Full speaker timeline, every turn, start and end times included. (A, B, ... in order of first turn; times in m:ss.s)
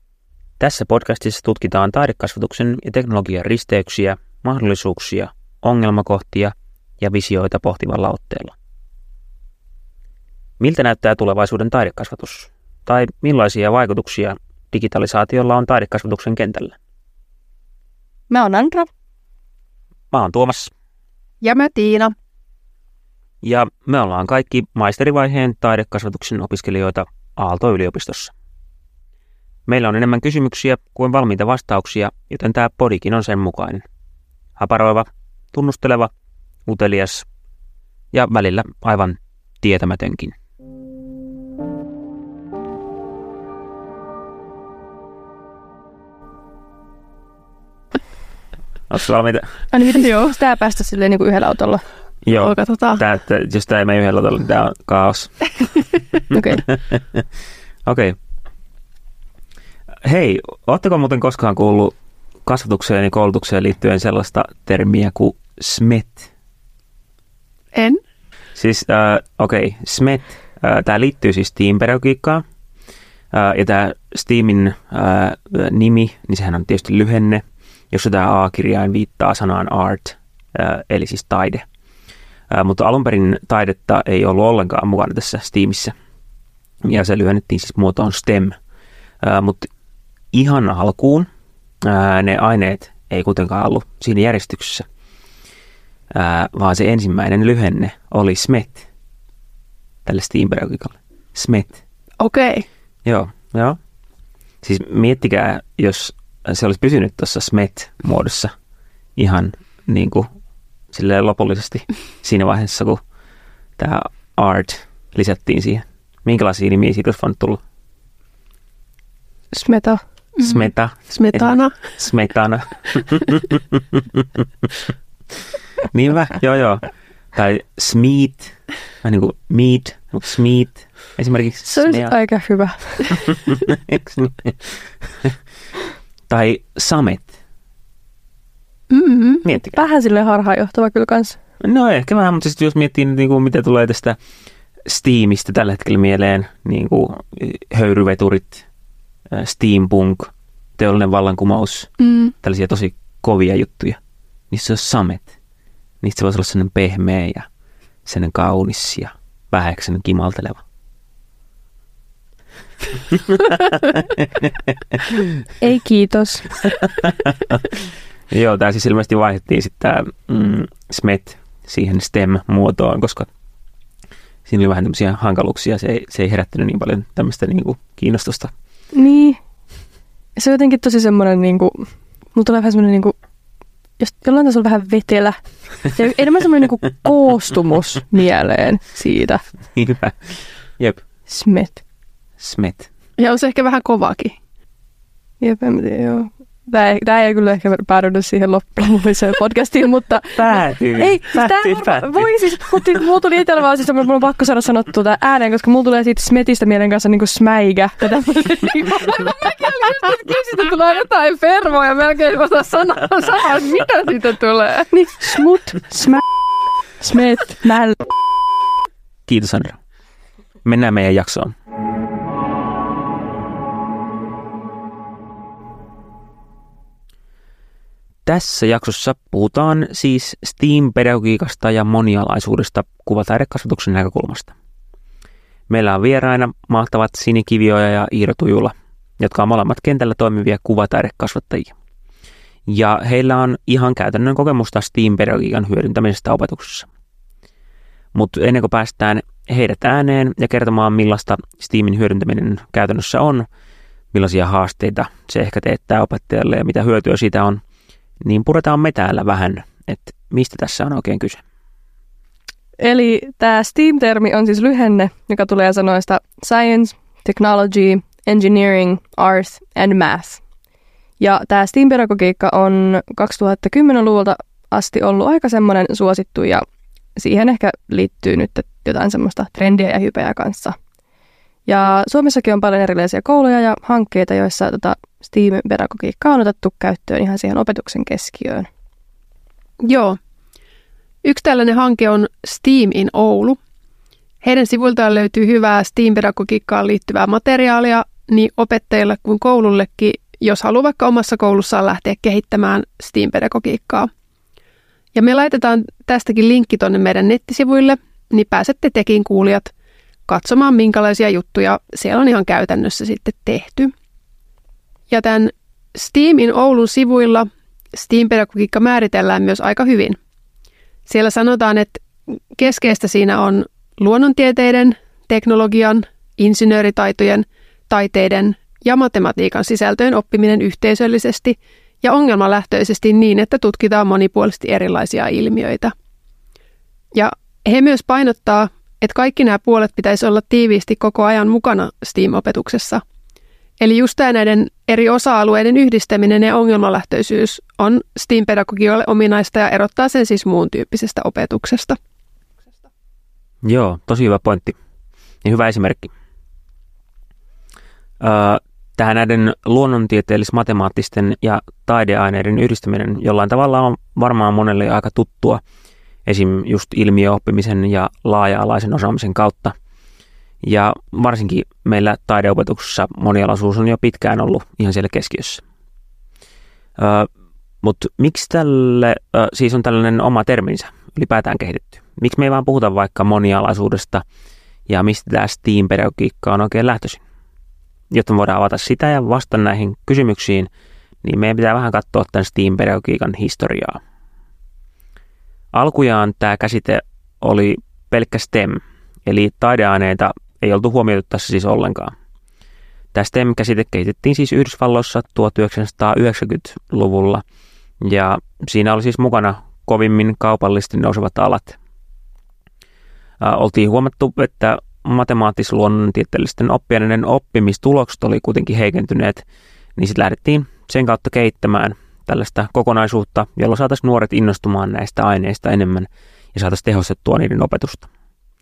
0:00.6-0:08.5 A
0:10.6-0:16.7 A
0:18.3-0:18.9 B
0:20.1-0:20.7 A
0:21.4-0:22.1 C
0:23.4-0:28.3 A
0:29.7-0:33.8 A
0:34.6-0:36.1 A
0:36.7-0:37.2 A
0:38.1-0:40.3 A
0:48.9-0:49.6 A
0:49.7-0:51.8 B
0:52.2-0:56.0 A
0:52.4-0:53.0 C
0:56.3-0:56.6 B
0:56.7-0:57.0 A
0:57.8-0:58.1 A
1:00.0-1:06.3 A
1:07.7-1:08.0 C
1:08.6-1:12.4 A
1:13.3-1:21.6 A
1:22.5-1:25.9 A
1:26.8-1:28.6 A
1:29.2-1:29.7 A
1:30.3-1:31.3 A
1:31.8-1:34.8 A
1:36.1-1:38.8 A
1:40.0-1:41.8 A
1:42.2-1:42.6 C
1:43.0-1:43.8 A
1:44.6-1:48.5 A
1:49.2-1:50.3 A
1:50.9-1:53.0 A
1:53.8-1:57.6 A
1:59.5-2:00.0 B
2:00.4-2:01.8 C
2:00.4-2:04.2 A
2:05.9-2:12.1 A
2:11.7-2:13.3 B
2:13.9-2:15.3 A
2:16.3-2:17.3 A
2:18.9-2:19.4 C
2:19.4-2:19.8 A
2:19.7-2:21.4 B
2:21.6-2:24.2 A
2:24.8-2:28.6 A
2:29.3-2:34.0 A
2:32.0-2:32.3 C
2:34.5-2:35.3 A
2:36.0-2:37.5 A
2:38.0-2:40.6 A
2:44.0-2:45.0 A
2:45.6-2:46.6 B
2:48.3-2:53.3 A
2:54.4-2:58.5 A
2:58.9-2:59.4 B
3:00.4-3:03.1 B
3:04.0-3:09.4 B
3:09.8-3:11.0 A
3:11.3-3:11.8 B
3:12.4-3:12.9 A
3:13.2-3:14.3 C
3:15.4-3:33.9 B
3:20.4-3:22.3 A
3:33.4-3:34.8 C
3:34.9-3:36.2 B
3:37.0-3:38.0 B
3:39.2-3:39.8 A
3:40.6-3:41.5 A
3:48.2-3:54.5 A
3:55.7-4:01.7 A
4:02.7-4:06.9 A
4:08.1-4:13.4 A
4:14.1-4:17.6 A
4:18.2-4:21.4 A
4:22.8-4:30.4 B
4:31.2-4:36.6 B
4:37.2-4:40.8 B
4:41.7-4:48.7 B
4:49.8-4:50.2 C
4:51.2-4:53.6 C
4:54.4-5:04.1 C
5:05.1-5:09.7 C
5:10.3-5:13.9 C
5:15.1-5:20.2 C
5:21.1-5:35.9 C
5:37.1-5:43.0 C
5:43.8-5:52.0 C
5:53.6-5:54.8 A
5:55.4-5:56.1 A
5:58.2-6:05.6 A
6:06.2-6:09.7 A
6:10.6-6:15.6 A
6:17.0-6:17.3 A
6:17.8-6:24.2 A
6:24.9-6:27.2 A
6:28.1-6:30.7 A
6:31.2-6:34.0 A
6:35.7-6:42.1 A
6:43.1-6:47.4 A
6:48.0-6:51.8 A
6:53.4-6:59.4 A
7:00.0-7:08.1 A